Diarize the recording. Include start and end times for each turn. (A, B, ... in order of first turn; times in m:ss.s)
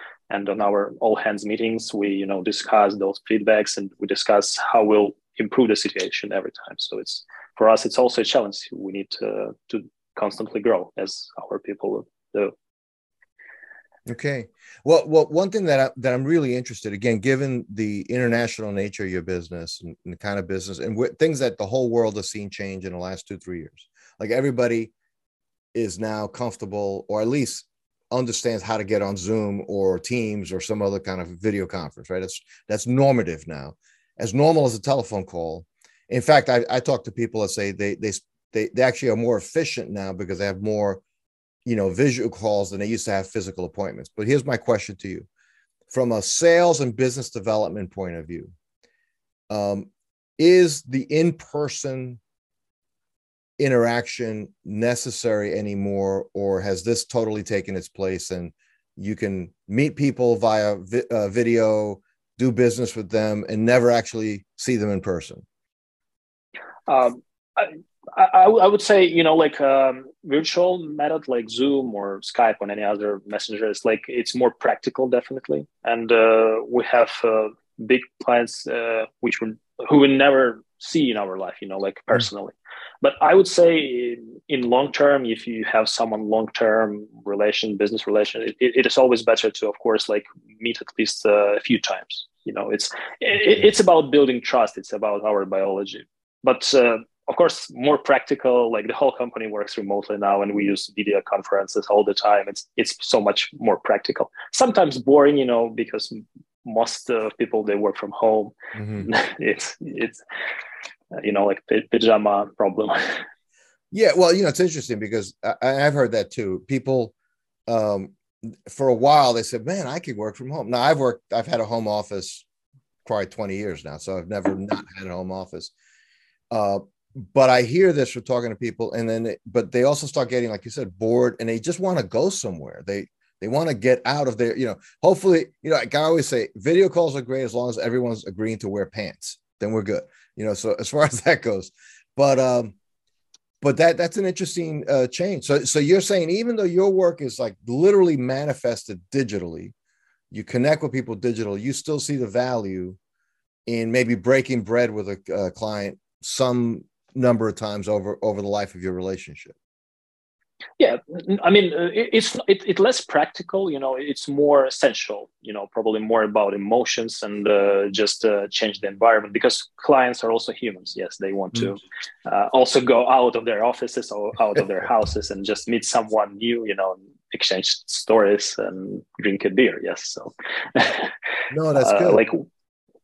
0:00.3-0:12.5 A
0:14.1-0:24.9 B
0:25.7-0:41.0 B
0:41.7-0:45.3 B
0:45.9-0:48.5 B
0:49.5-0:52.2 B
0:53.6-1:05.4 B
1:06.9-1:50.2 A
1:48.8-1:49.1 B
1:51.1-1:53.2 A
1:53.9-1:57.1 B
1:57.7-1:58.1 B
1:58.7-2:02.5 B
2:03.0-2:05.7 B
2:06.5-2:22.8 B
2:23.6-2:29.7 B
2:30.3-2:33.0 B
2:33.7-2:39.6 B
2:40.8-3:01.1 A
3:01.5-3:02.2 B
3:01.8-3:02.5 A